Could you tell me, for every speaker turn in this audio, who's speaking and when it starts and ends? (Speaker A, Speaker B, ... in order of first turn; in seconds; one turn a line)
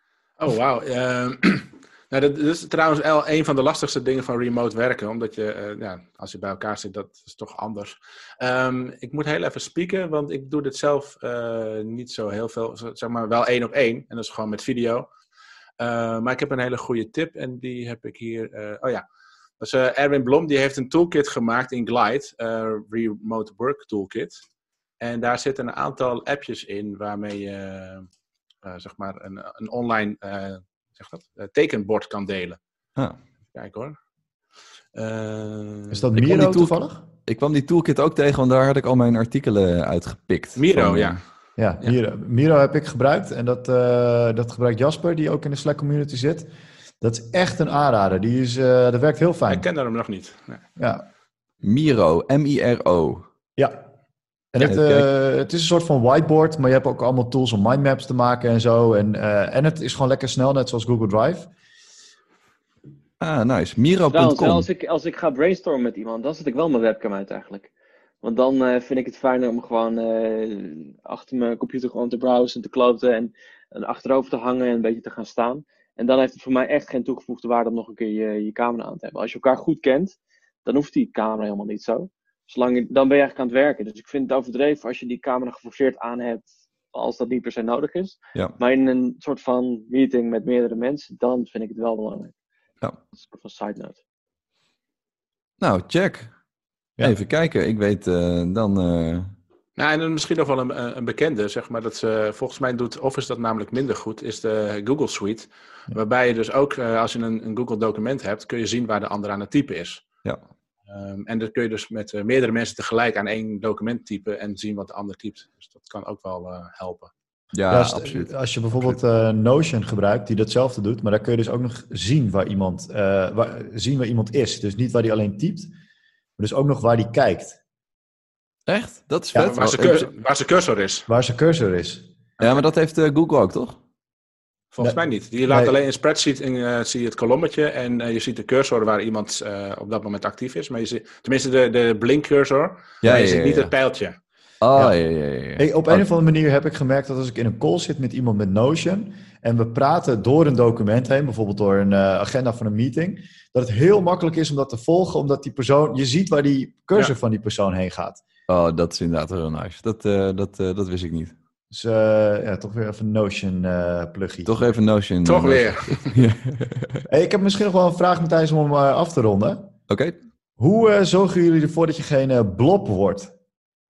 Speaker A: 0.4-15.1
Speaker A: 15.8-19.0
Speaker A: 19.6-24.4
Speaker A: 25.0-28.1
Speaker A: 28.6-32.6
Speaker A: 33.5-34.0
Speaker A: 34.9-36.0
Speaker B: 35.9-37.0
Speaker C: 36.2-36.7
Speaker C: 37.2-41.2
Speaker A: 40.5-41.2
Speaker B: 41.6-46.5
Speaker B: 47.0-49.6
Speaker A: 49.5-50.6
Speaker B: 50.8-51.0
Speaker C: 51.6-53.2
Speaker B: 53.6-53.8
Speaker B: 54.5-61.5
Speaker C: 54.6-55.0
Speaker C: 63.2-64.7
Speaker D: 64.1-67.7
Speaker D: 68.2-92.3
Speaker D: 93.1-94.0
Speaker C: 95.6-96.3
Speaker C: 97.0-99.3
Speaker A: 99.8-110.0
Speaker A: 110.9-117.1
Speaker C: 117.5-119.0
Speaker B: 117.7-125.7
Speaker B: 126.4-127.6
Speaker C: 128.7-130.1
Speaker B: 129.3-129.6
Speaker A: 129.4-131.1
Speaker B: 131.1-132.1
Speaker C: 132.4-133.8
Speaker A: 134.7-144.1
Speaker B: 134.8-135.7
Speaker C: 143.0-143.7
Speaker C: 144.6-146.0
Speaker B: 145.6-158.2
Speaker C: 158.5-161.3
Speaker B: 161.7-164.6
Speaker C: 164.4-167.0
Speaker A: 165.2-166.1
Speaker B: 167.1-169.7
Speaker C: 169.9-170.1
Speaker B: 170.6-173.3